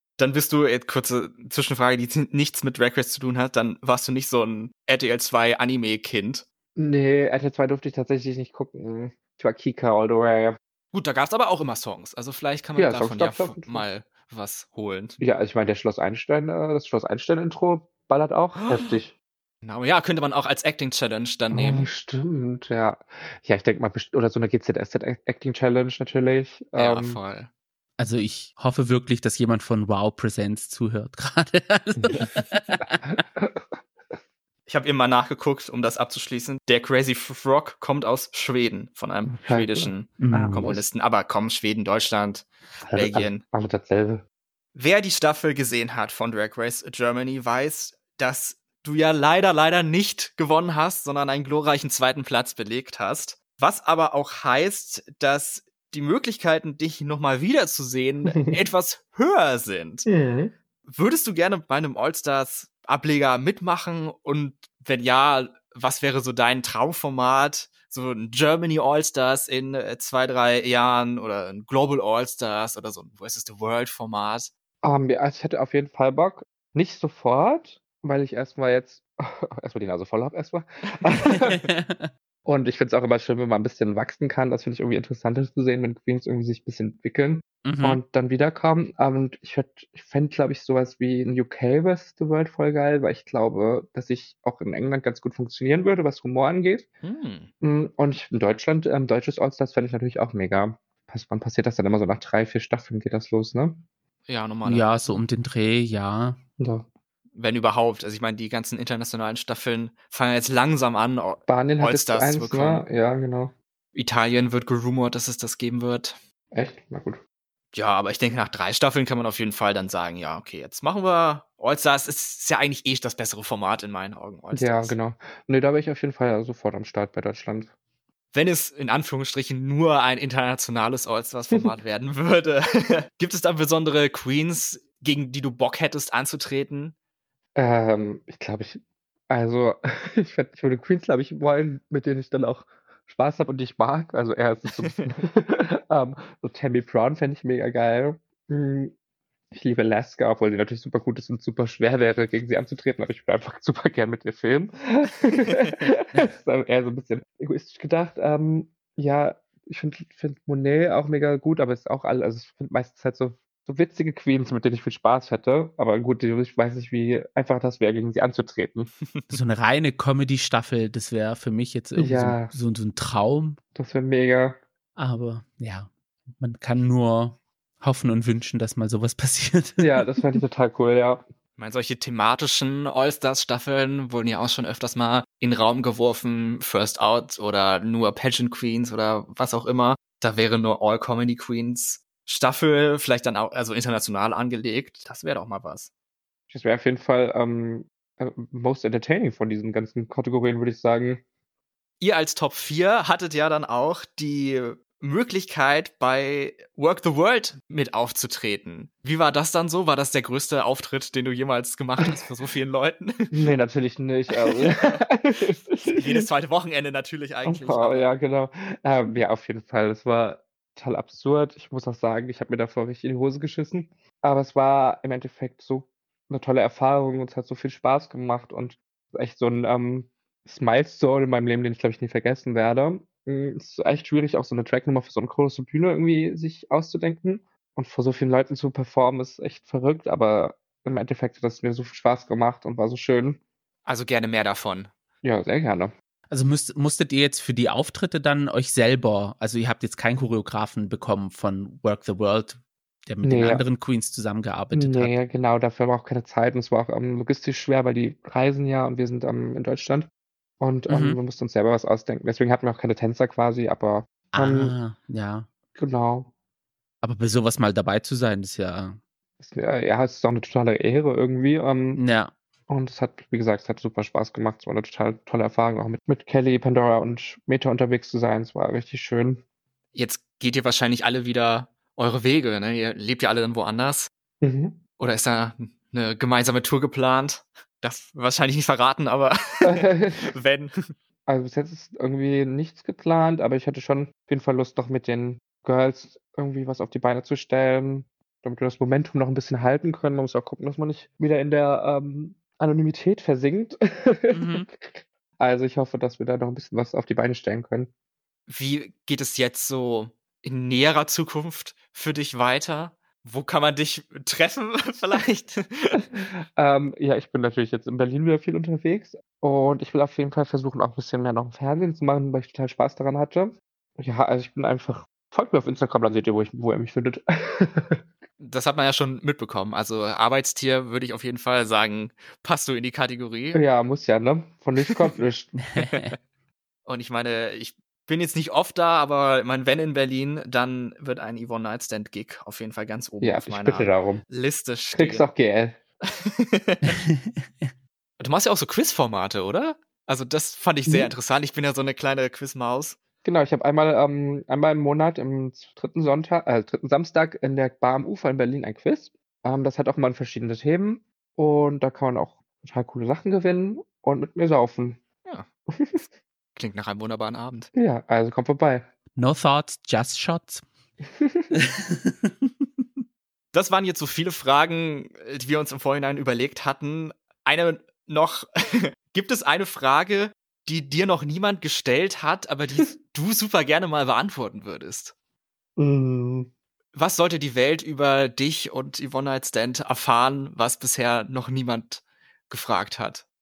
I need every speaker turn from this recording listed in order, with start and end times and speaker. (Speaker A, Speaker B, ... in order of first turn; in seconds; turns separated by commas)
Speaker A: 0.2-6.4, Speaker B: 6.8-10.6, Speaker A: 10.9-15.2, Speaker B: 12.8-13.8, Speaker B: 15.2-19.1, Speaker A: 18.6-19.0, Speaker A: 19.6-21.9, Speaker B: 21.5-27.2, Speaker A: 26.8-27.5, Speaker C: 28.0-33.0, Speaker B: 33.0-33.7, Speaker A: 34.6-43.4, Speaker B: 39.3-40.8, Speaker C: 40.2-40.7, Speaker B: 42.9-44.2, Speaker A: 44.7-60.0, Speaker B: 60.0-60.5, Speaker A: 60.9-74.5, Speaker B: 74.8-81.6, Speaker A: 80.9-81.3, Speaker C: 81.2-82.1, Speaker B: 82.5-96.9, Speaker C: 87.6-88.0, Speaker A: 97.0-97.5, Speaker B: 97.6-103.8, Speaker A: 104.3-104.9, Speaker C: 104.6-106.4, Speaker B: 106.6-106.9, Speaker A: 107.3-112.8, Speaker B: 111.5-113.5, Speaker A: 113.9-116.2, Speaker B: 116.5-117.2, Speaker A: 117.7-125.0, Speaker B: 124.5-127.7, Speaker A: 128.3-136.9, Speaker B: 137.6-148.9, Speaker A: 144.8-145.0, Speaker B: 149.5-168.9, Speaker A: 169.1-169.4, Speaker C: 169.3-173.6, Speaker B: 172.0-172.5, Speaker B: 173.7-174.6, Speaker C: 175.0-180.2, Speaker B: 179.8-181.2, Speaker A: 181.6-195.9, Speaker B: 196.5-201.2, Speaker A: 202.0-213.4, Speaker B: 213.3-216.2, Speaker A: 214.4-215.0, Speaker A: 215.8-218.1, Speaker B: 217.4-243.4, Speaker A: 243.8-244.9, Speaker B: 245.2-245.9, Speaker C: 246.3-255.1, Speaker B: 253.2-253.6, Speaker B: 254.7-260.1, Speaker B: 260.6-264.7, Speaker C: 260.9-261.2, Speaker C: 264.3-265.5, Speaker B: 265.7-266.3, Speaker C: 267.0-269.0, Speaker B: 269.4-272.0, Speaker C: 271.9-272.3, Speaker B: 272.7-279.4, Speaker A: 279.9-284.1, Speaker B: 284.4-284.8, Speaker A: 285.0-290.9, Speaker B: 289.6-290.3, Speaker B: 291.3-307.9, Speaker C: 304.3-304.7, Speaker A: 308.5-316.1, Speaker B: 316.2-328.0, Speaker A: 328.4-333.6, Speaker B: 333.5-335.5, Speaker C: 335.6-336.1, Speaker A: 335.8-336.1, Speaker A: 336.9-345.2, Speaker B: 343.2-344.2, Speaker B: 344.9-345.8, Speaker A: 346.1-347.0, Speaker C: 347.2-347.7, Speaker A: 348.2-353.0, Speaker B: 353.2-365.0, Speaker B: 365.7-366.0, Speaker A: 366.6-367.7, Speaker B: 367.7-368.9, Speaker C: 369.1-370.6, Speaker B: 371.2-371.5, Speaker C: 371.5-372.5, Speaker A: 373.5-385.1, Speaker B: 385.8-386.5, Speaker A: 386.9-393.2